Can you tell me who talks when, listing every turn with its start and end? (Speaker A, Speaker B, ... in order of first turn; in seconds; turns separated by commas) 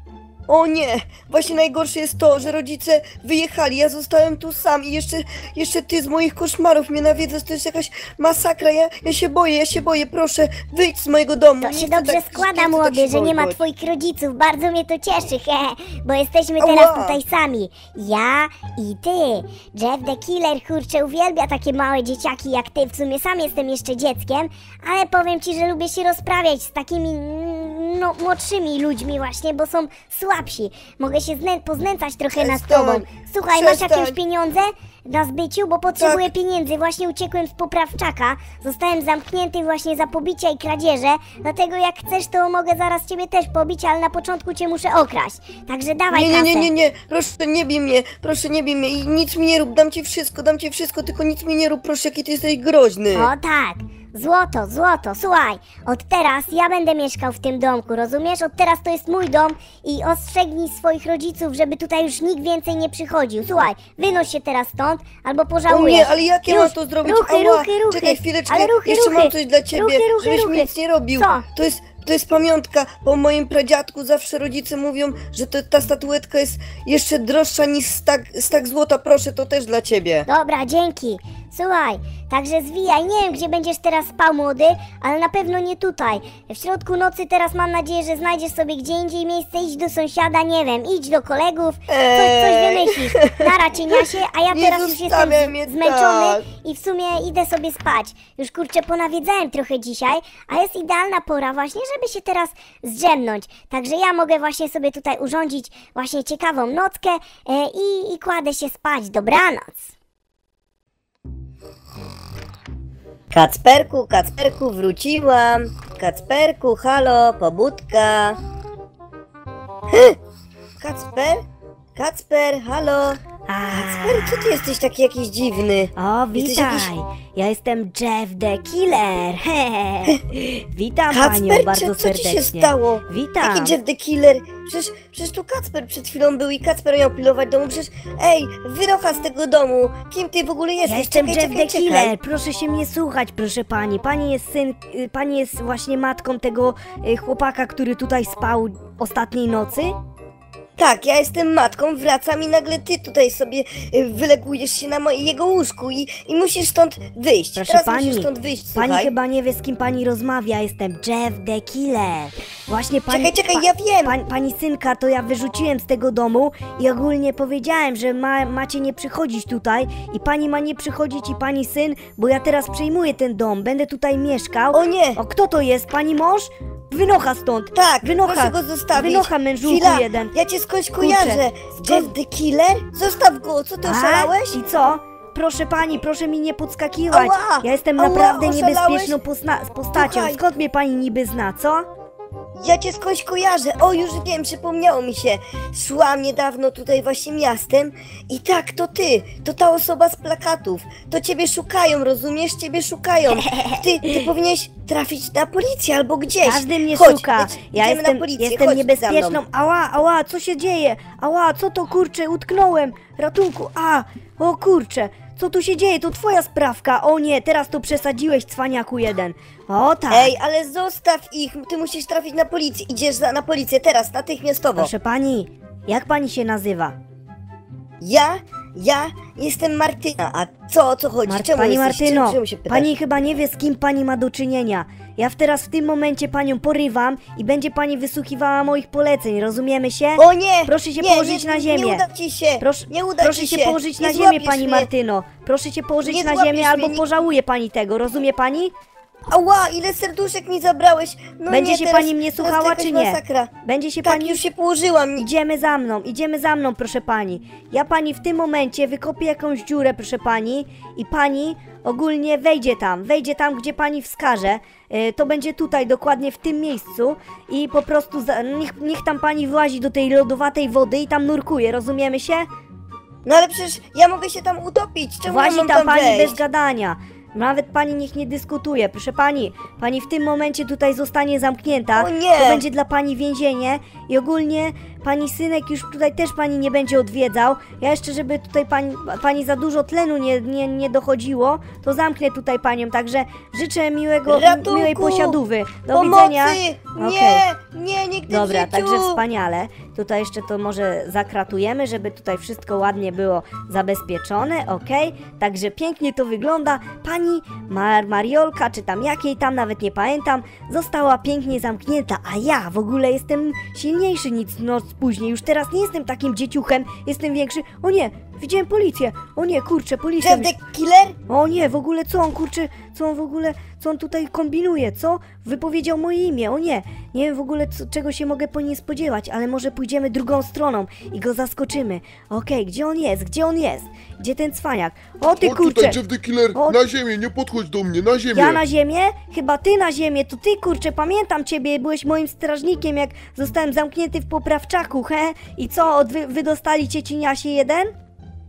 Speaker A: 0.5-13.6, Speaker B: 11.6-46.7, Speaker A: 16.6-17.2, Speaker A: 32.4-34.2, Speaker A: 36.0-36.3, Speaker A: 46.1-53.3, Speaker B: 53.1-71.5, Speaker A: 65.7-80.3, Speaker B: 80.3-109.9, Speaker A: 91.9-93.4, Speaker A: 94.5-96.4, Speaker A: 113.3-118.4, Speaker A: 119.9-120.2, Speaker A: 120.8-121.4, Speaker A: 122.0-123.2, Speaker C: 123.5-124.7, Speaker A: 123.7-126.9, Speaker C: 126.0-133.8, Speaker A: 131.1-142.1, Speaker C: 140.8-149.9, Speaker A: 150.8-159.1, Speaker C: 157.6-180.3, Speaker A: 163.1-164.2, Speaker A: 174.7-175.2, Speaker A: 177.8-184.6, Speaker C: 181.0-182.1, Speaker C: 183.8-191.8, Speaker A: 187.1-189.2, Speaker A: 189.9-190.4, Speaker A: 192.6-209.4, Speaker C: 203.4-204.3, Speaker C: 206.4-220.3, Speaker A: 220.1-224.9, Speaker C: 224.8-227.0, Speaker A: 228.0-232.9, Speaker C: 231.3-242.0, Speaker A: 240.2-244.9, Speaker C: 242.6-248.7, Speaker A: 246.0-247.0, Speaker A: 249.3-253.5, Speaker C: 251.5-254.4, Speaker A: 254.0-255.3, Speaker C: 255.2-272.5, Speaker A: 273.2-276.4, Speaker C: 275.3-297.4, Speaker A: 282.0-282.6, Speaker A: 294.3-295.4, Speaker A: 295.9-299.2, Speaker C: 298.3-320.5, Speaker A: 320.2-321.2, Speaker C: 321.3-336.0, Speaker D: 335.3-338.6, Speaker C: 338.3-347.9